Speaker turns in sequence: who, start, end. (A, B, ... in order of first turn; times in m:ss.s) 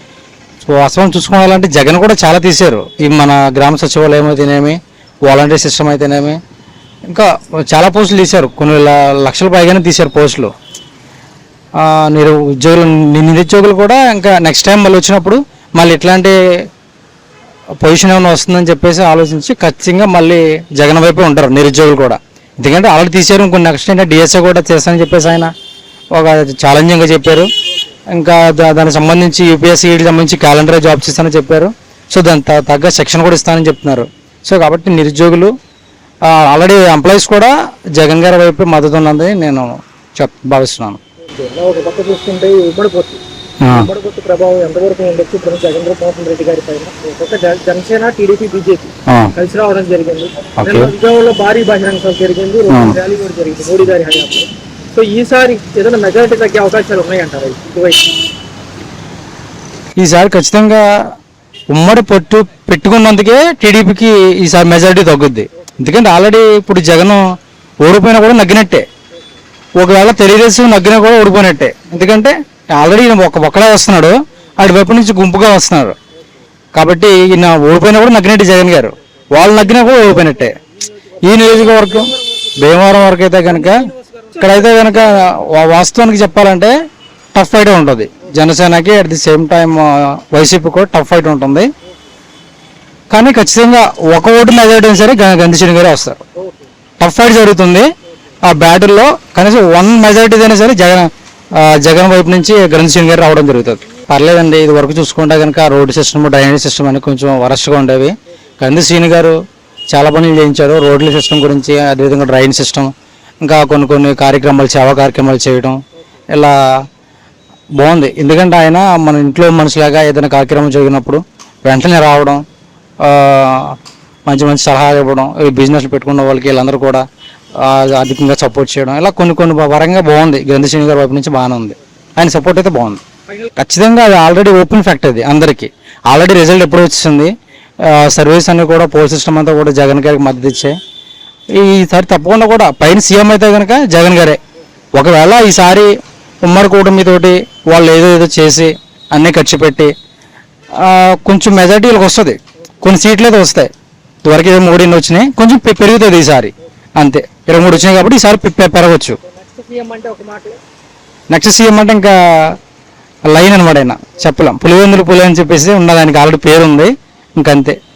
0:00.7-0:06.4 A
0:07.1-0:10.5 A
0:11.8-0:16.4 A
0:17.8-0:25.5 A
0:26.2-0:27.5 A
0:28.2-0:35.5 A
0:36.3-0:41.0 A
0:41.3-0:43.2 B
0:43.6-0:43.9 A
0:43.7-0:58.1 B
0:50.6-0:50.9 A
0:52.7-0:53.0 A
1:00.0-1:00.8 A
1:01.7-1:07.2 A
1:07.8-1:08.9 A
1:09.8-1:16.0 A
1:16.8-1:20.5 A
1:20.0-1:22.5 B
1:21.2-1:26.7 A
1:23.5-1:25.0 B
1:27.4-1:31.7 A
1:33.1-1:36.2 A
1:36.4-1:36.7 B
1:37.0-1:37.9 A
1:38.5-1:41.1 A
1:41.7-1:49.4 A
1:49.9-1:52.9 A
1:53.4-1:55.8 A
1:57.8-2:02.4 A
2:03.0-2:07.0 A
2:07.6-2:13.0 A
2:13.6-2:17.3 A
2:17.9-2:20.8 A
2:21.6-2:24.4 A
2:25.0-2:25.9 A
2:26.4-2:29.9 A
2:30.8-2:33.7 A
2:34.2-2:39.2 A
2:39.3-2:40.6 B
2:41.3-2:42.6 A
2:43.3-2:47.8 A